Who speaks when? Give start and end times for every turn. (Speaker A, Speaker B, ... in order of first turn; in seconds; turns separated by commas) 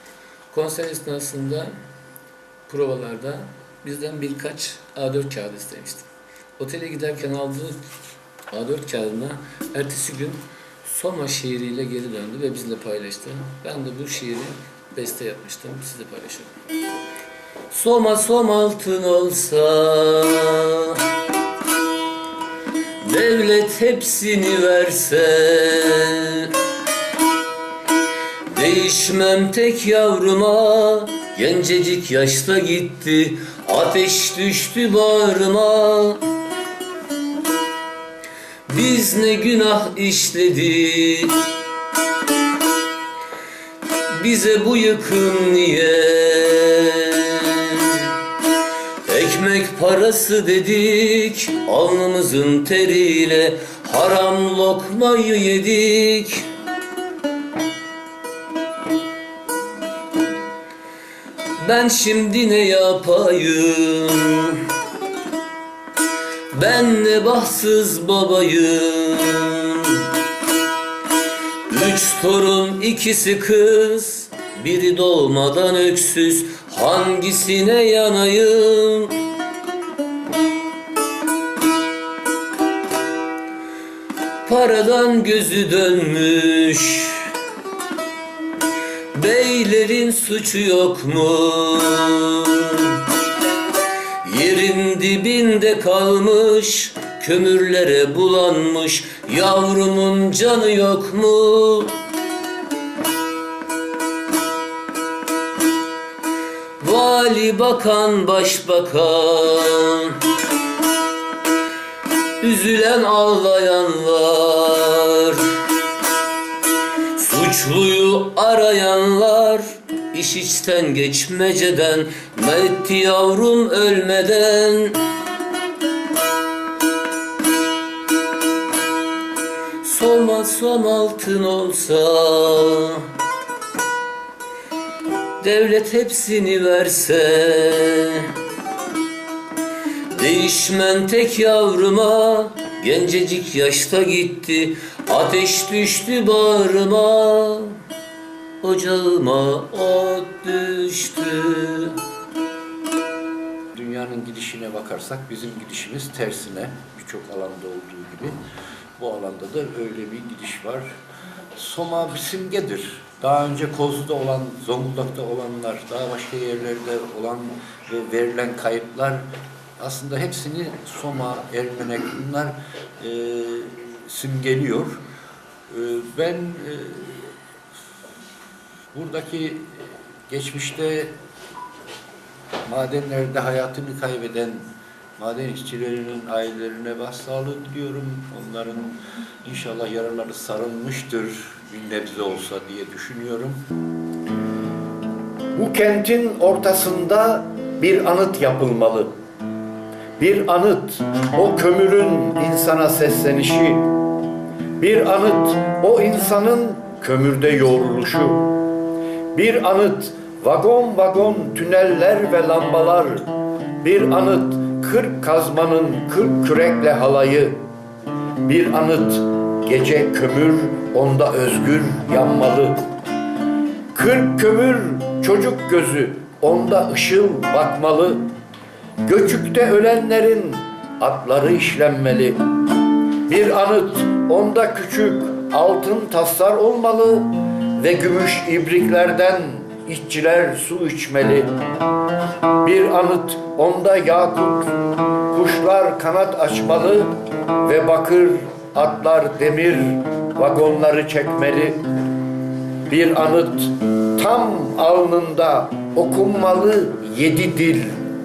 Speaker A: 0.5-1.7, Speaker A: 2.7-6.1, Speaker A: 6.6-7.8, Speaker A: 8.5-16.5, Speaker A: 17.7-21.0, Speaker A: 23.0-26.5, Speaker A: 28.5-36.2, Speaker A: 38.7-41.4, Speaker A: 44.1-48.1, Speaker A: 49.1-56.5, Speaker A: 61.6-64.6, Speaker A: 66.5-70.0, Speaker A: 71.7-79.1, Speaker A: 84.4-87.2, Speaker A: 89.1-93.0, Speaker A: 94.2-101.9, Speaker A: 106.8-110.2, Speaker A: 112.4-115.4, Speaker A: 117.2-125.0, Speaker A: 129.8-133.1, Speaker A: 135.4-138.3, Speaker A: 140.1-147.8, Speaker A: 148.6-151.9, Speaker B: 153.7-158.3, Speaker B: 159.0-160.8, Speaker B: 161.6-169.2, Speaker B: 169.8-175.0, Speaker B: 175.7-177.3, Speaker B: 178.9-181.1, Speaker B: 182.7-184.6, Speaker B: 185.2-193.6, Speaker C: 195.5-199.1, Speaker C: 200.2-203.9, Speaker C: 204.8-208.5, Speaker C: 209.3-209.8, Speaker C: 210.4-213.0, Speaker B: 214.8-216.2, Speaker C: 216.4-216.8, Speaker B: 217.0-217.4, Speaker C: 218.5-218.8, Speaker B: 219.7-220.4, Speaker C: 220.0-222.5, Speaker B: 221.6-222.6, Speaker B: 224.4-224.7, Speaker C: 225.2-228.2, Speaker B: 227.0-227.3, Speaker C: 229.1-229.6, Speaker B: 229.5-230.1, Speaker C: 230.1-232.1, Speaker B: 231.3-232.3, Speaker C: 233.3-237.1, Speaker C: 237.8-241.5, Speaker B: 240.3-241.2, Speaker C: 242.6-247.1, Speaker C: 247.6-249.8, Speaker C: 250.3-251.8, Speaker C: 252.9-253.6, Speaker C: 254.2-258.0